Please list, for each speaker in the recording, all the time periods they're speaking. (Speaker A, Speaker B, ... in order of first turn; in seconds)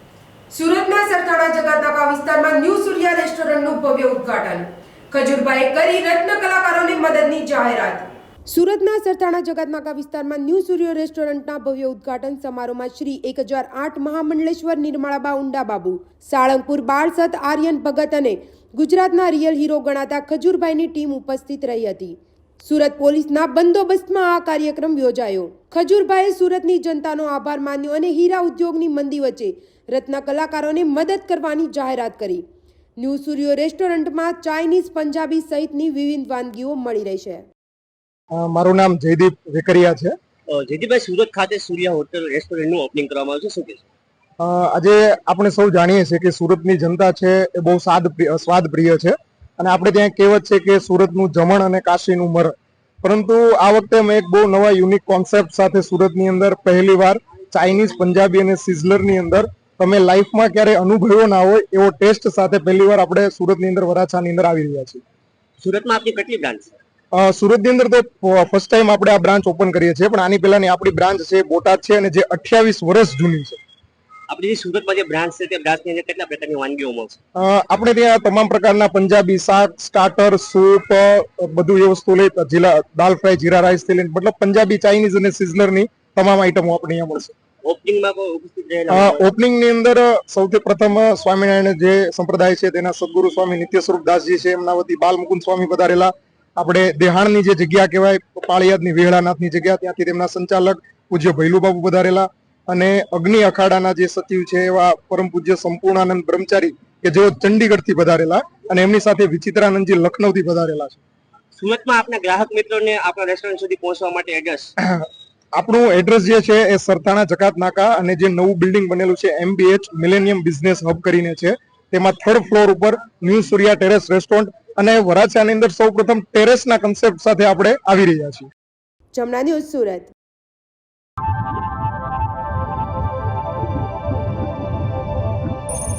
Speaker A: 0.5-32.4, 33.0-37.5, 129.2-130.1
Speaker B: 38.3-40.1, 44.4-65.0, 67.1-73.6, 77.4-87.3, 88.9-111.0, 114.8-128.5
Speaker C: 40.5-43.9, 65.6-66.8, 74.3-77.2, 87.6-89.3, 111.6-114.7